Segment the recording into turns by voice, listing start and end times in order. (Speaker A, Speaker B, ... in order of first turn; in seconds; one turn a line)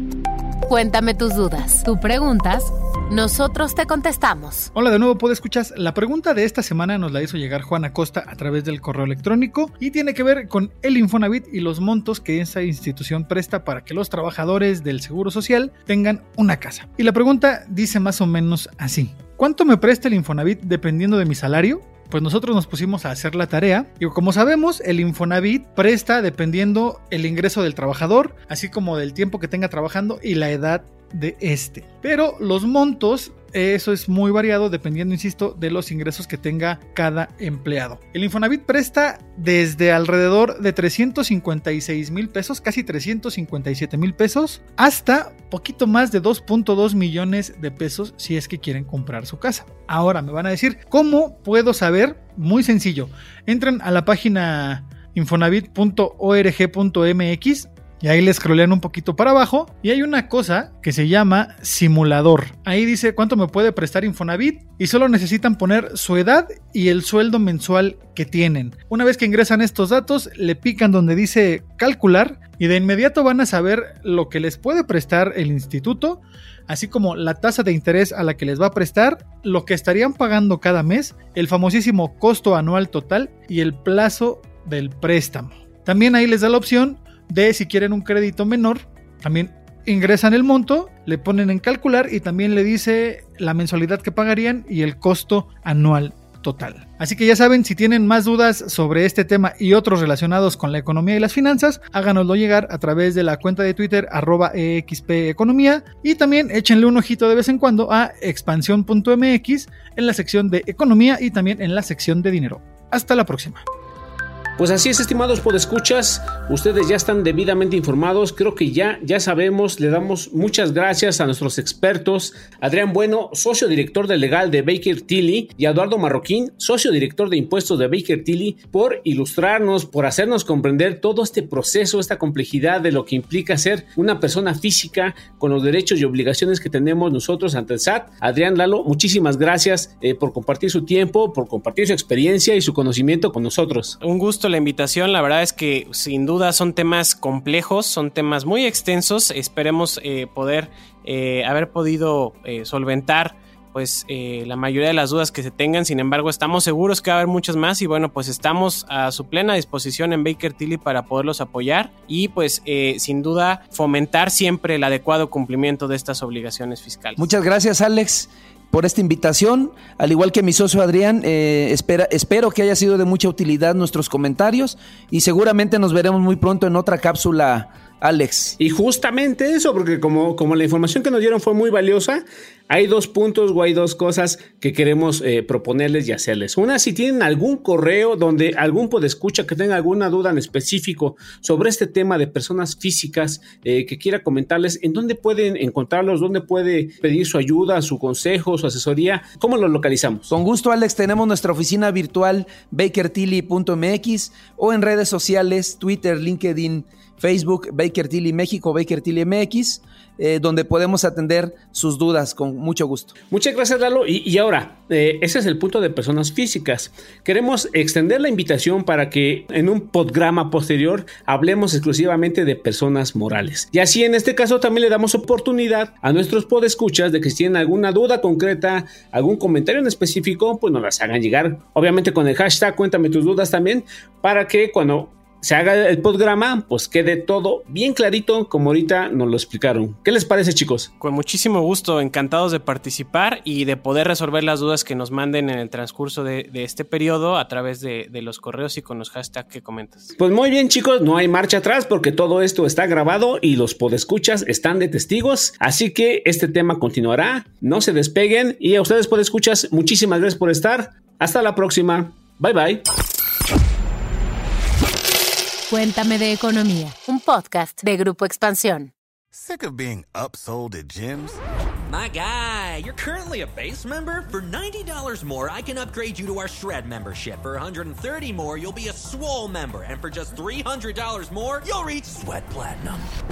Speaker A: 0.7-4.7
Speaker B: 4.7-113.6
Speaker C: 114.6-144.0
Speaker D: 144.0-167.3
Speaker E: 167.2-178.6
Speaker C: 178.6-200.3
Speaker E: 200.3-213.1
Speaker C: 213.3-240.9
Speaker D: 241.0-250.2
Speaker C: 250.2-262.9
Speaker A: 265.7-268.9
Speaker F: 269.3-271.4
Speaker G: 271.9-283.1